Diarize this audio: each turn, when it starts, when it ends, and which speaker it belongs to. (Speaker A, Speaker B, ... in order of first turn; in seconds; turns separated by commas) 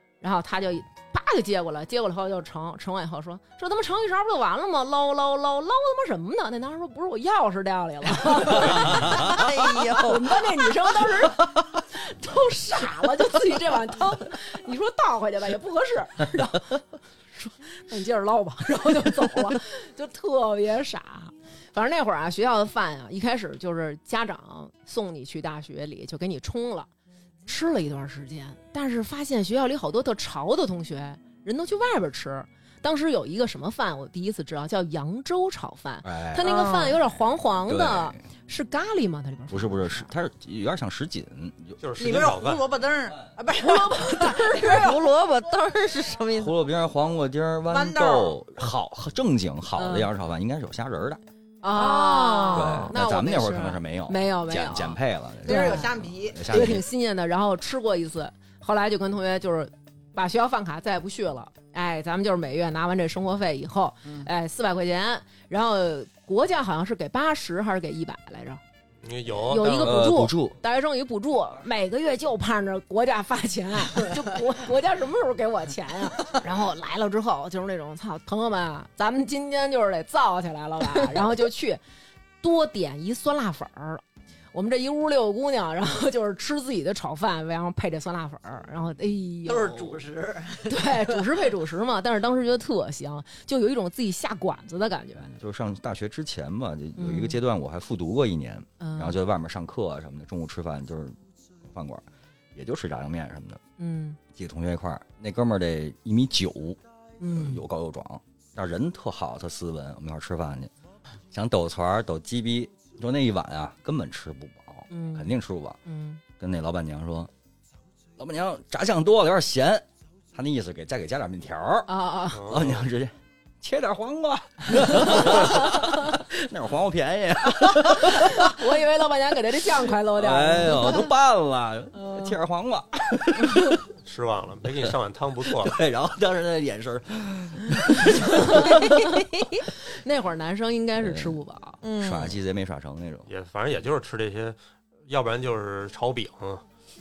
Speaker A: 0.2-16.9, Speaker B: 8.4-10.7, Speaker A: 17.4-26.9, Speaker A: 27.5-40.1, Speaker C: 36.0-36.5, Speaker B: 36.4-37.0, Speaker C: 37.6-38.2, Speaker C: 39.5-41.8, Speaker D: 41.8-42.7, Speaker E: 42.0-45.0, Speaker A: 43.6-44.9, Speaker B: 44.6-46.5, Speaker C: 46.4-51.2, Speaker E: 47.7-48.4, Speaker A: 49.8-50.1, Speaker A: 51.6-55.9, Speaker B: 51.7-52.9, Speaker C: 52.5-56.9, Speaker E: 55.5-56.8, Speaker A: 56.5-68.6, Speaker D: 69.0-70.1, Speaker A: 69.4-81.8, Speaker C: 69.8-70.6, Speaker A: 82.4-84.0, Speaker A: 84.5-90.0, Speaker E: 89.5-91.5, Speaker A: 90.7-95.3, Speaker C: 95.2-103.6, Speaker A: 97.0-97.4, Speaker A: 98.8-99.2, Speaker A: 103.8-104.2, Speaker C: 104.3-110.7, Speaker A: 107.2-107.6, Speaker C: 111.3-115.8, Speaker A: 114.9-115.3, Speaker A: 115.9-116.2, Speaker C: 116.4-117.3, Speaker C: 118.2-128.7, Speaker A: 121.9-122.5, Speaker D: 122.3-122.9, Speaker A: 124.9-126.0, Speaker A: 128.0-131.1, Speaker C: 130.2-133.8, Speaker A: 131.9-132.4, Speaker A: 133.4-133.8, Speaker D: 134.1-135.8, Speaker C: 134.8-138.9, Speaker A: 138.2-139.2, Speaker A: 139.9-141.8, Speaker C: 141.0-141.4, Speaker B: 141.8-142.3, Speaker C: 142.0-143.3, Speaker D: 143.3-146.6